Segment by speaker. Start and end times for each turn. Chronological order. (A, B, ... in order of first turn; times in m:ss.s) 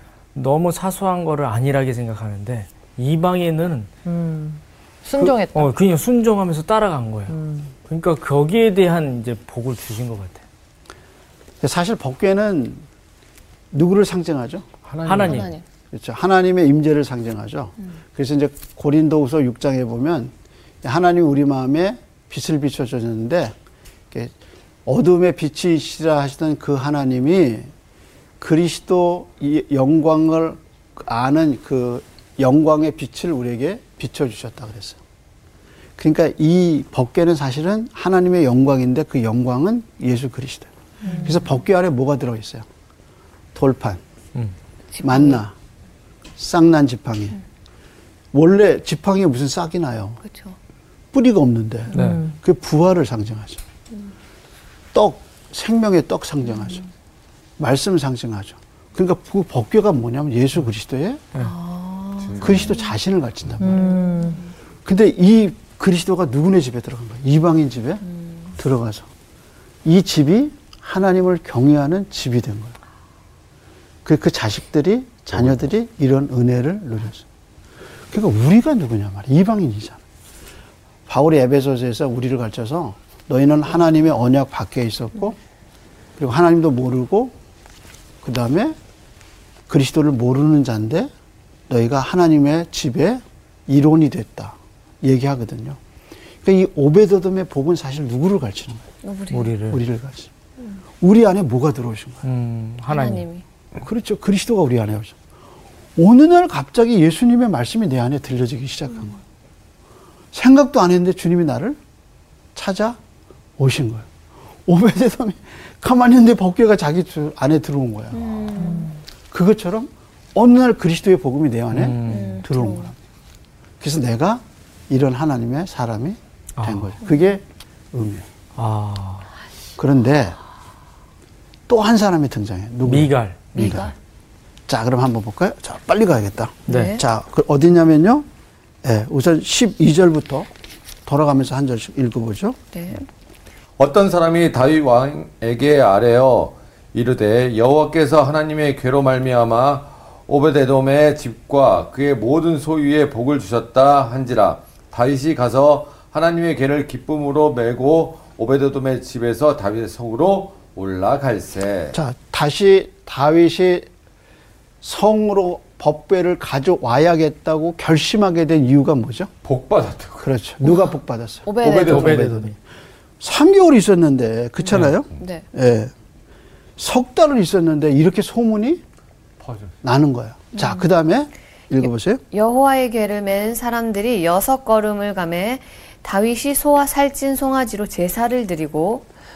0:00.3-0:03.9 A
0:04.0-0:05.7 B
0:05.5-0:07.3 A
0:07.3-0:07.7 B
0:07.9-0:10.4 A
0:11.6-0:12.8 C
0:13.7-0:14.7 C
0:14.8-0:15.5 D
0:15.0-0:15.5 A
0:15.2-0:15.6 E
0:15.9-0:20.3 C
0:20.8-0:23.5 C
0:24.8-0:27.7 C
0:28.4-0:35.0 C
0:36.0-0:40.7 C
0:41.0-0:41.5 E
0:41.2-0:42.6 C
0:43.5-0:44.0 C
0:44.9-0:45.4 E
0:45.0-0:45.5 C
0:46.4-0:47.4 C
0:48.3-0:50.2 C
0:50.2-0:50.6 E
0:51.1-0:53.6 C
0:51.9-0:52.2 A
0:51.9-0:52.3 B
0:54.9-0:56.8 C
0:57.6-1:01.2 C
1:01.4-1:02.9 E
1:02.2-1:02.8 D
1:02.4-1:03.9 C
1:03.6-1:04.4 B
1:03.6-1:04.5 E
1:04.8-1:08.0 C
1:08.1-1:08.5 E
1:08.6-1:09.1 C
1:09.8-1:12.7 C
1:14.0-1:17.2 C
1:18.1-1:20.0 C
1:21.1-1:25.4 C
1:26.2-1:27.3 C
1:28.2-1:28.8 C
1:29.7-1:31.1 C
1:31.7-1:35.8 C
1:36.4-1:38.8 C
1:39.0-1:39.6 E
1:39.3-1:39.8 A
1:39.7-1:40.3 C
1:41.0-1:42.2 C
1:42.2-1:43.2 A
1:42.9-1:43.4 E
1:43.8-1:45.1 C
1:46.0-1:49.2 C
1:50.3-1:51.8 C
1:52.5-1:53.0 C
1:53.6-1:54.1 C
1:54.6-1:58.3 C
1:58.1-1:59.0 E
1:58.6-1:58.9 B
1:59.3-2:02.9 C
2:01.7-2:02.4 A
2:02.0-2:02.9 E
2:03.8-2:08.2 C
2:06.6-2:06.9 A
2:08.6-2:09.3 A
2:09.8-2:10.4 C
2:11.7-2:13.9 C
2:12.8-2:13.5 A
2:13.5-2:13.9 E
2:14.7-2:18.3 C
2:16.7-2:16.9 A
2:16.7-2:17.0 E
2:18.8-2:20.5 C
2:21.0-2:22.6 C
2:22.7-2:23.0 E
2:23.8-2:42.0 D
2:41.9-2:43.9 C
2:44.8-2:49.3 C
2:49.4-2:50.3 D
2:50.2-2:52.5 C
2:51.4-2:52.3 E
2:51.6-2:52.2 D
2:51.8-2:52.5 A
2:53.2-2:55.9 C
2:54.6-2:55.4 E
2:56.8-2:58.8 C
2:59.4-2:59.7 D
2:59.8-3:02.2 C
3:00.5-3:00.9 E
3:02.3-3:09.0 E